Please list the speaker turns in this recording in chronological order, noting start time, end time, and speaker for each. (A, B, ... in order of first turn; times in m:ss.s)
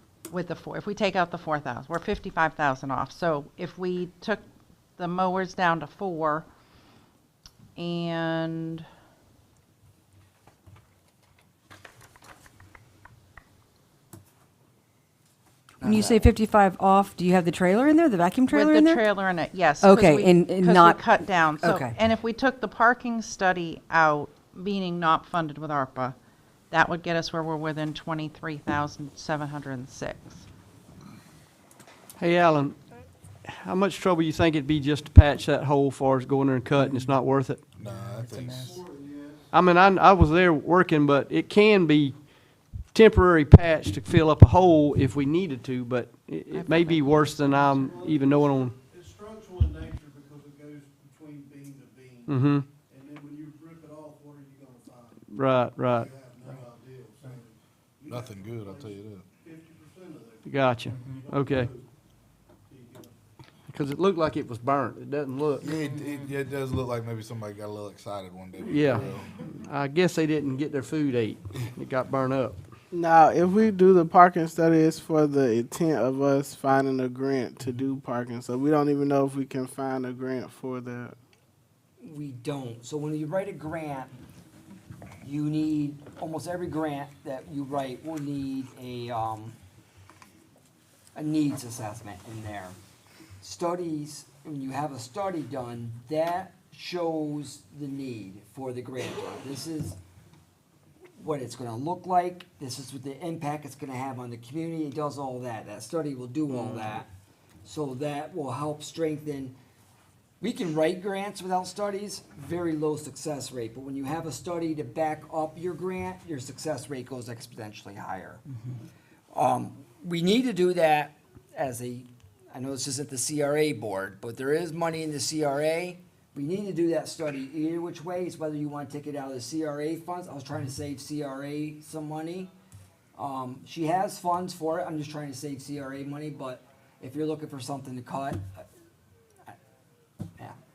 0:00.3-0:04.4 A
0:05.0-0:06.4 A
0:07.8-0:08.8 A
0:15.8-0:16.3 B
0:15.8-0:19.0 C
0:18.5-0:26.1 A
0:19.8-0:21.0 C
0:21.6-0:21.9 C
0:26.7-0:30.4 A
0:32.2-0:32.8 D
0:33.4-0:37.6 D
0:37.8-0:38.7 E
0:38.6-0:39.4 F
0:39.5-0:48.7 D
0:46.5-0:47.7 A
0:47.7-0:55.2 F
0:52.3-0:52.7 D
0:55.3-0:56.1 D
0:55.9-1:01.9 F
0:58.1-0:59.2 E
1:00.4-1:01.7 D
1:02.7-1:03.1 F
1:03.7-1:05.7 D
1:05.6-1:09.4 E
1:08.6-1:12.6 D
1:12.9-1:21.1 G
1:22.0-1:24.1 B
1:25.2-1:29.6 B
1:31.1-1:32.8 B
1:33.4-1:40.0 B
1:41.2-1:47.1 B
1:47.6-1:49.6 B
1:50.4-1:58.4 B
1:59.3-2:12.5 B
2:13.2-2:18.6 B